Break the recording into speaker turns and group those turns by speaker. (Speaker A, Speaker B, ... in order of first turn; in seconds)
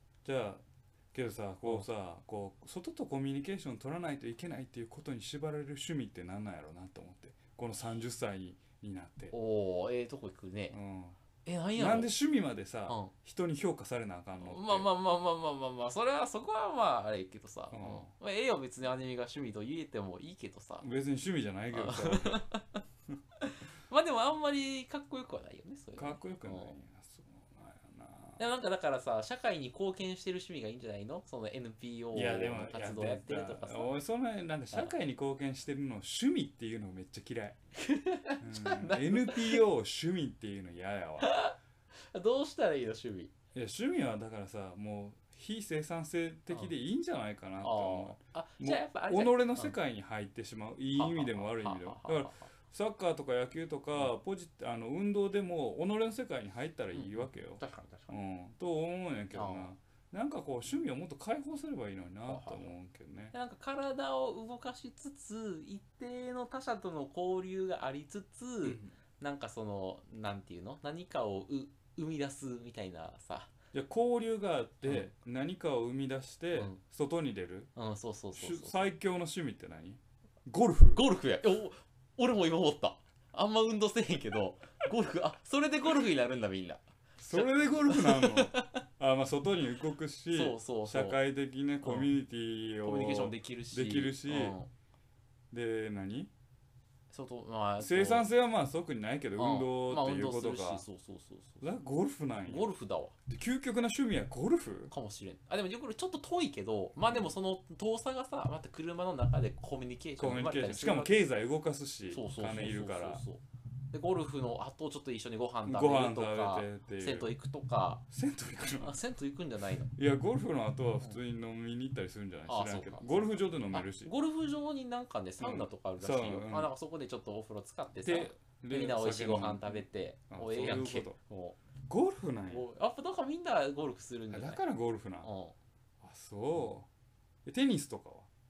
Speaker A: 0.2-9.3, 10.7-11.2, 11.8-14.9, 17.7-18.1, 20.8-22.4, 26.0-28.4, 32.1-37.6, 38.4-41.3, 43.5-63.3, 68.6-68.9, 73.7-77.7, 78.3-81.0, 87.2-94.6, 95.5-96.3, 97.8-100.8, 101.6-102.7, 103.3-104.9, 110.2-113.2, 115.7-117.3, 118.1-119.0, 119.9-124.1, 125.4-126.7, 128.0-131.2, 131.9-132.7, 134.3-135.3, 136.0-136.9, 137.4-138.3
Speaker B: 9.3-10.8, 11.4-12.1, 12.9-13.1, 14.4-20.9, 21.7-22.8, 23.4-26.8, 28.4-33.9, 37.8-39.6, 41.2-41.5, 42.1-43.3, 47.6-49.8, 50.9-52.5, 56.9-58.1, 59.3-59.7, 62.3-62.7, 63.3-73.5, 74.8-75.1, 76.5-76.8, 77.8-78.9, 80.9-88.8, 90.3-91.2, 91.8-92.1, 92.8-94.7, 97.1-98.3, 99.4-101.6, 102.5-103.1, 104.9-111.3, 112.1-118.0, 118.8-119.9, 122.5-131.6, 132.5-134.6, 135.2-135.6